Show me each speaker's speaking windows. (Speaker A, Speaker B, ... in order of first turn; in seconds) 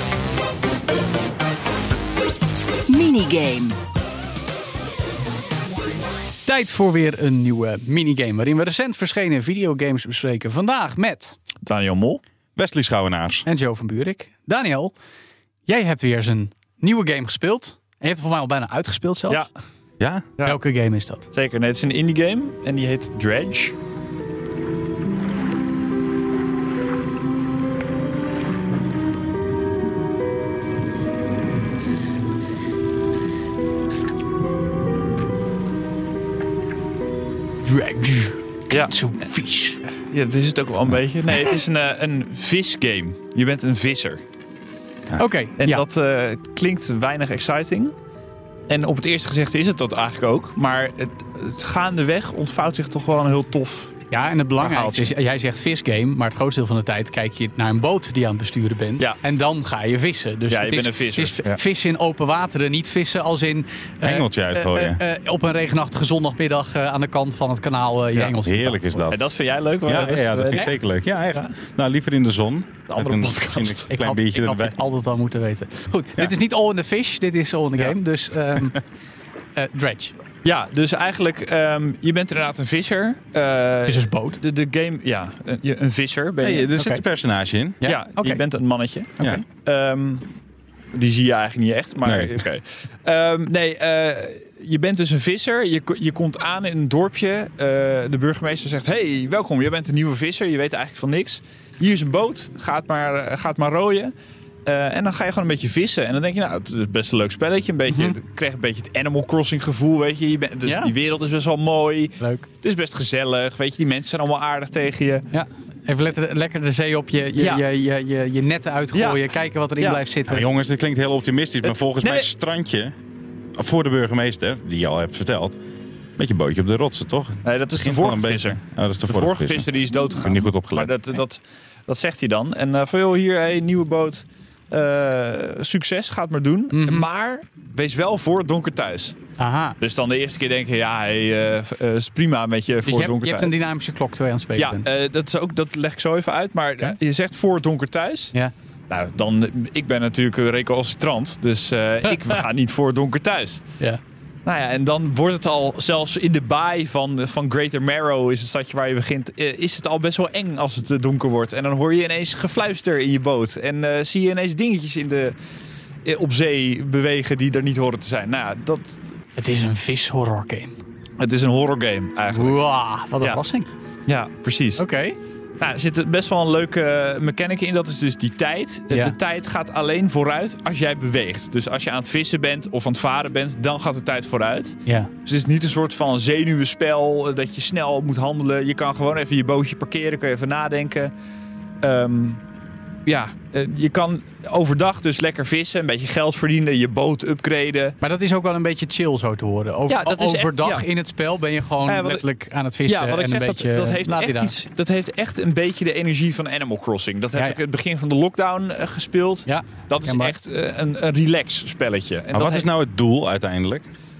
Speaker A: 2.9-3.8, 6.5-11.4, 13.4-14.9, 15.7-19.5, 20.4-21.3, 37.6-39.8, 45.1-45.8, 54.1-69.0, 73.9-78.8, 79.5-80.1, 83.9-84.4, 86.8-87.0, 87.8-88.4, 107.9-108.2, 110.6-110.9, 112.2-112.5, 115.3-120.5, 136.7-137.1, 139.4-139.8, 142.8-144.8, 152.1-152.4, 169.3-170.8, 172.3-173.7, 174.8-175.2, 184.8-185.1, 198.0-204.5, 209.4-210.4
Speaker B: 11.6-12.2, 21.3-23.7, 40.1-44.2, 45.6-47.9, 48.7-54.0, 54.6-55.1, 60.5-61.6, 69.1-71.5, 72.9-73.9, 80.4-86.7, 87.8-90.2, 90.9-104.1, 104.7-115.3, 117.4-117.6, 118.9-119.2, 121.6-122.3, 127.4-139.2, 139.8-143.5, 144.6-148.3, 148.9-153.6, 154.4-165.3, 166.0-168.9, 171.2-172.6, 174.1-174.8, 175.6-191.1, 191.8-192.4, 193.1-197.9, 199.9-200.8, 201.8-202.2, 202.9-212.7
Speaker C: 12.6-13.4, 20.0-20.3, 64.0-65.0, 68.4-69.2, 69.8-74.8, 86.4-87.8, 92.0-92.4, 120.3-122.9, 123.6-125.6, 126.2-130.9, 212.3-213.9